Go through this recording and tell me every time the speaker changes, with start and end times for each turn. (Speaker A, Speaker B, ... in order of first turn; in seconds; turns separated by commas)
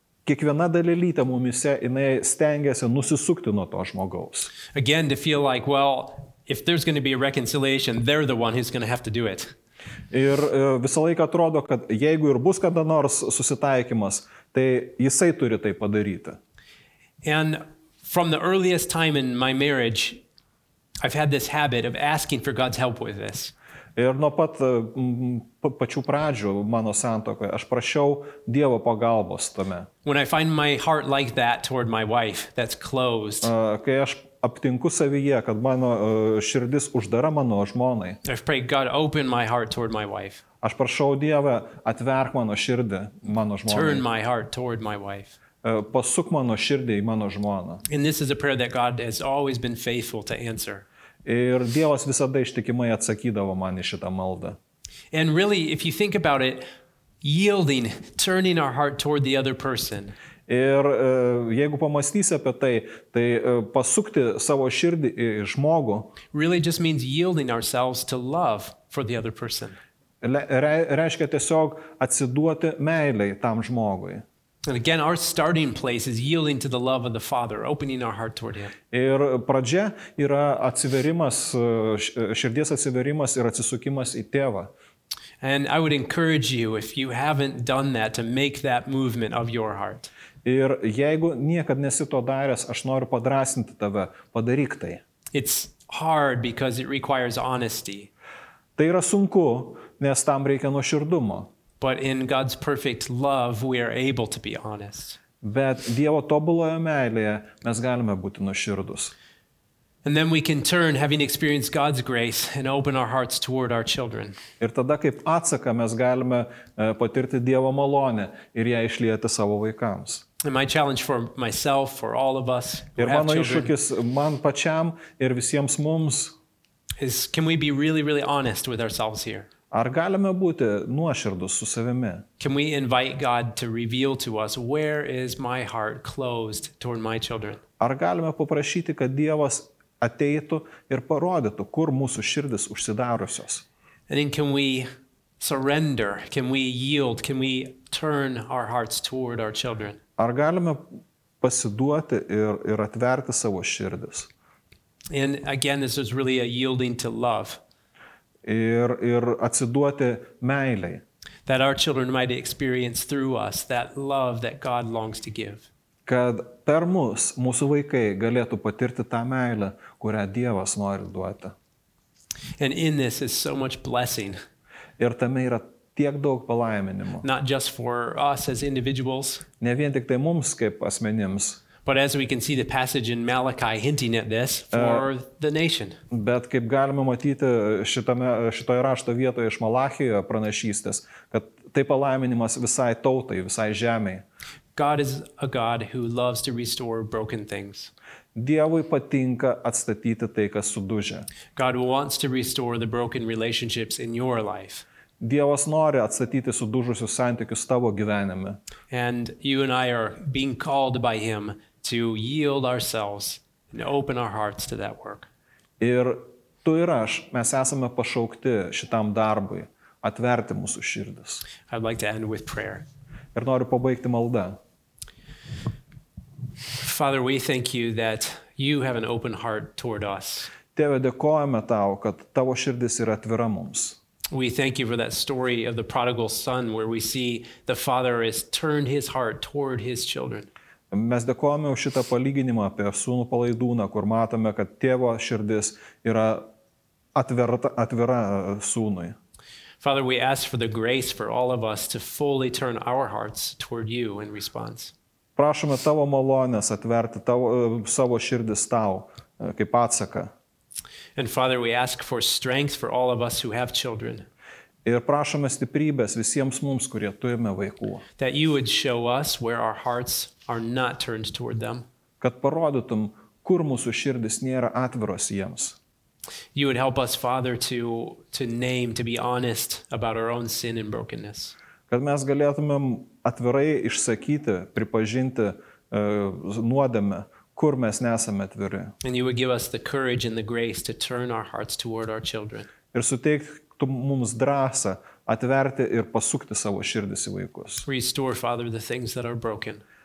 Speaker A: 0.3-4.5, Speaker B: 4.7-9.5, Speaker A: 10.1-16.4, Speaker B: 17.2-20.2, Speaker B: 21.0-23.5, Speaker A: 24.0-29.9, Speaker B: 30.1-33.5, Speaker A: 33.4-38.2, Speaker B: 38.2-40.4, Speaker A: 40.6-44.0, Speaker B: 43.7-45.4, Speaker A: 45.6-47.8, Speaker B: 47.9-50.9, Speaker A: 51.2-54.6, Speaker B: 55.1-56.7, Speaker B: 57.2-60.1, Speaker A: 60.5-66.1, Speaker B: 66.3-69.8, Speaker A: 70.2-74.2, Speaker B: 74.7-78.7, Speaker A: 78.9-84.7, Speaker B: 85.4-90.1, Speaker A: 90.4-95.0, Speaker B: 95.3-98.1, Speaker A: 98.8-101.5, Speaker B: 101.8-105.2, Speaker A: 105.4-109.1, Speaker B: 110.0-114.4, Speaker A: 114.6-120.2, Speaker B: 120.4-123.7, Speaker A: 123.0-126.3, Speaker B: 127.0-129.5, Speaker A: 129.7-132.2, Speaker B: 132.4-137.6, Speaker A: 137.8-143.6, Speaker B: 144.1-144.9, Speaker B: 145.4-150.0, Speaker A: 150.2-150.8, Speaker A: 151.4-154.3, Speaker B: 155.1-157.6, Speaker A: 158.4-161.0, Speaker B: 161.5-165.7, Speaker A: 166.1-171.6, Speaker B: 172.6-174.4, Speaker A: 175.0-177.3, Speaker B: 177.2-179.4, Speaker A: 179.6-181.6, Speaker B: 181.8-186.0, Speaker A: 184.7-185.1, Speaker A: 186.1-194.2, Speaker B: 194.8-197.9, Speaker A: 198.3-201.3, Speaker B: 201.6-204.8, Speaker A: 205.2-208.6, Speaker B: 208.9-215.3, Speaker A: 215.8-221.4, Speaker B: 221.7-222.8, Speaker A: 223.3-224.6, Speaker B: 226.8-230.5, Speaker A: 230.8-234.0, Speaker B: 234.3-240.5, Speaker A: 240.9-246.5, Speaker A: 247.2-249.2, Speaker B: 249.8-254.9, Speaker A: 255.4-260.3, Speaker B: 261.2-264.3, Speaker A: 264.9-268.0, Speaker B: 268.2-271.9, Speaker A: 272.2-275.8, Speaker B: 276.6-281.6, Speaker A: 281.9-288.9, Speaker B: 289.0-292.7, Speaker A: 292.9-297.9, Speaker B: 297.9-299.8